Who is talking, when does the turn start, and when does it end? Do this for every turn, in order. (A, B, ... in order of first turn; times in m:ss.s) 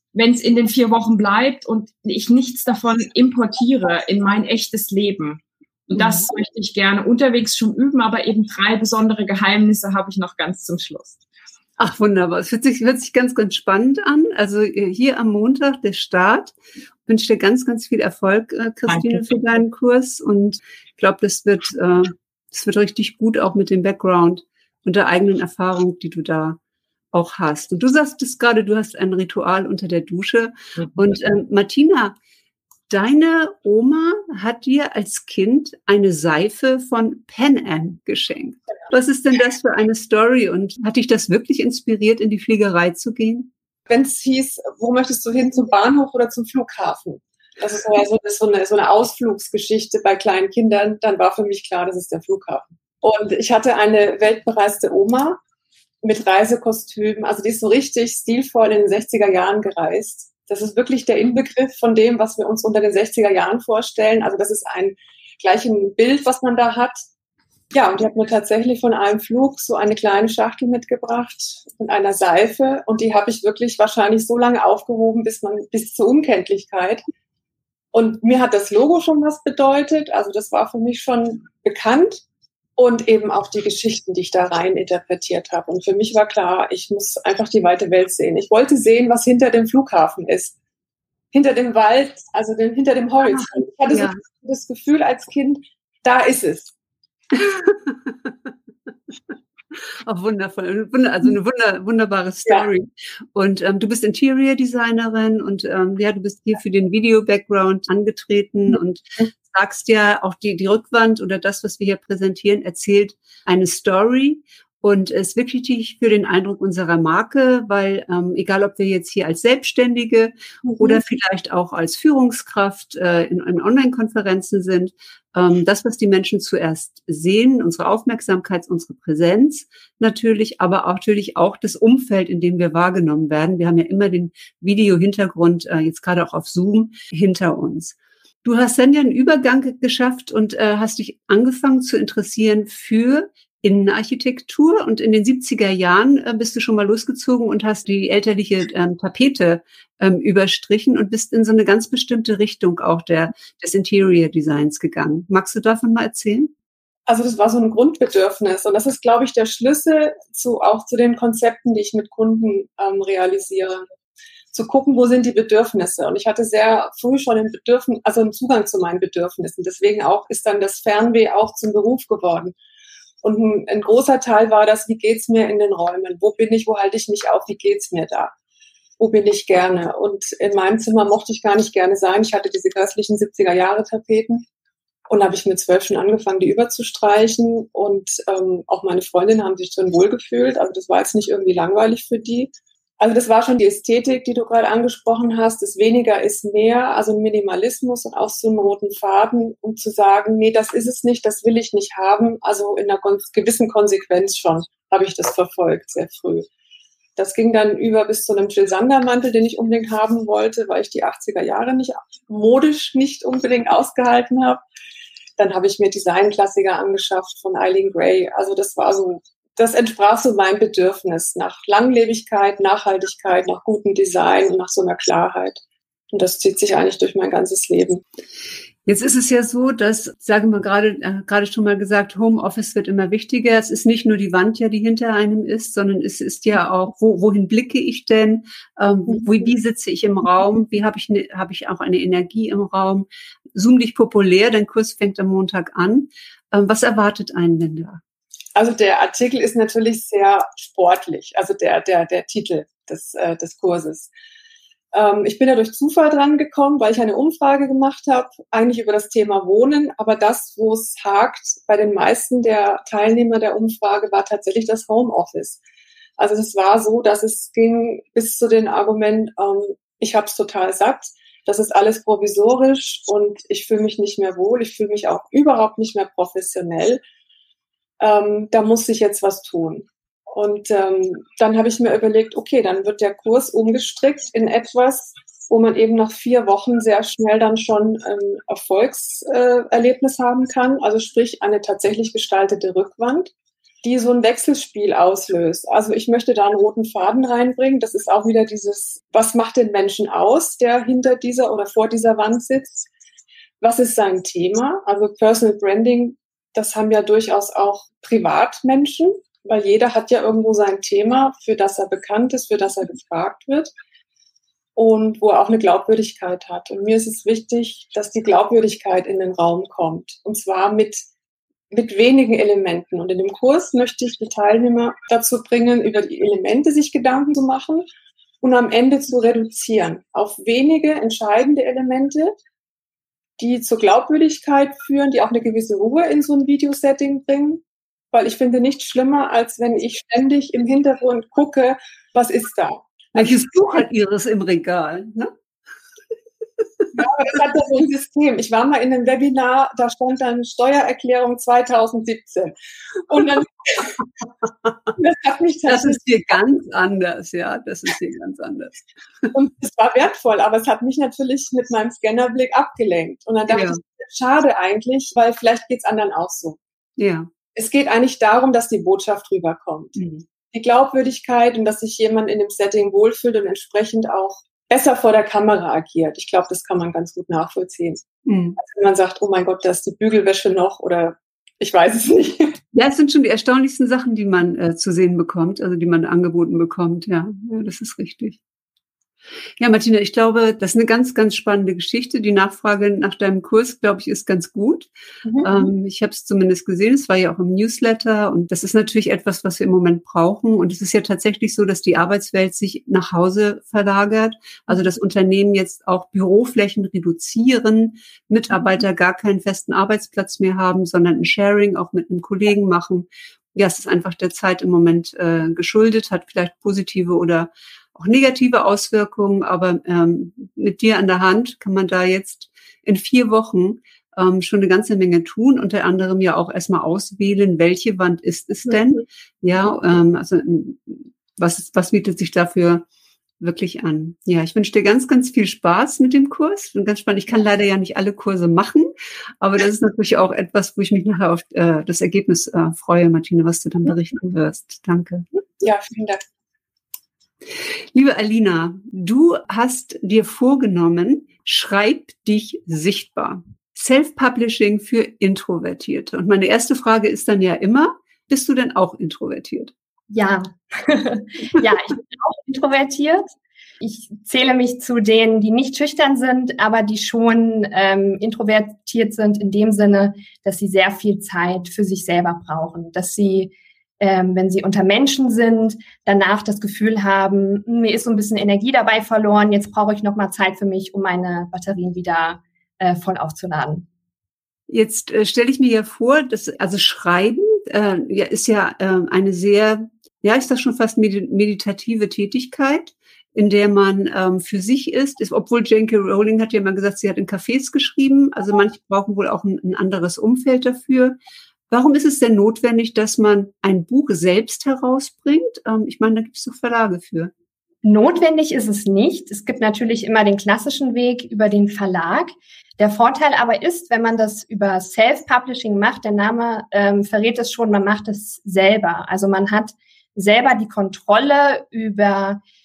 0:00.1-0:11.2 A
0:05.9-0:06.2 B
0:11.8-0:26.6 B
0:18.9-0:19.2 A
0:27.1-0:32.2 B
0:32.9-0:43.5 B
0:43.9-0:55.4 C
0:56.0-1:07.0 C
1:07.7-1:17.0 C
1:17.9-1:22.2 C
1:22.8-1:30.5 C
1:31.3-1:36.7 C
1:33.4-1:34.2 B
1:37.3-1:38.3 B
1:40.1-2:36.5 B
2:37.1-2:43.8 C
2:44.5-2:52.6 C
2:53.2-2:58.3 C
2:59.0-3:04.4 C
3:05.1-3:26.5 C
3:27.2-3:34.6 C
3:35.4-3:45.6 C
3:46.1-3:48.0 C
3:48.8-4:08.0 B
4:08.6-4:14.1 C
4:14.9-4:25.6 C
4:26.2-4:37.0 C
4:38.0-4:53.3 C
4:53.8-5:02.9 C
5:03.6-5:13.7 C
5:14.8-5:21.0 C
5:21.7-5:27.9 C
5:28.4-5:32.3 C
5:33.4-5:43.4 C
5:43.1-5:45.3 B
5:46.9-5:52.5 C
5:53.1-5:53.9 C
5:55.0-5:56.0 C
5:55.7-5:58.8 B
5:59.3-6:06.6 C
6:03.5-6:03.8 B
6:07.0-6:07.3 B
6:07.6-6:10.0 C
6:10.0-6:10.2 B
6:10.5-6:18.0 C
6:18.2-6:18.6 B
6:18.6-6:22.6 C
6:22.7-6:28.4 B
6:29.6-6:34.9 B
6:35.2-6:35.7 C
6:35.4-7:12.8 B
7:13.4-7:25.3 B
7:25.6-7:26.2 C
7:27.9-7:39.7 B
7:40.1-8:03.8 D
8:04.7-8:21.2 B
8:21.7-8:27.3 B
8:27.8-8:42.4 D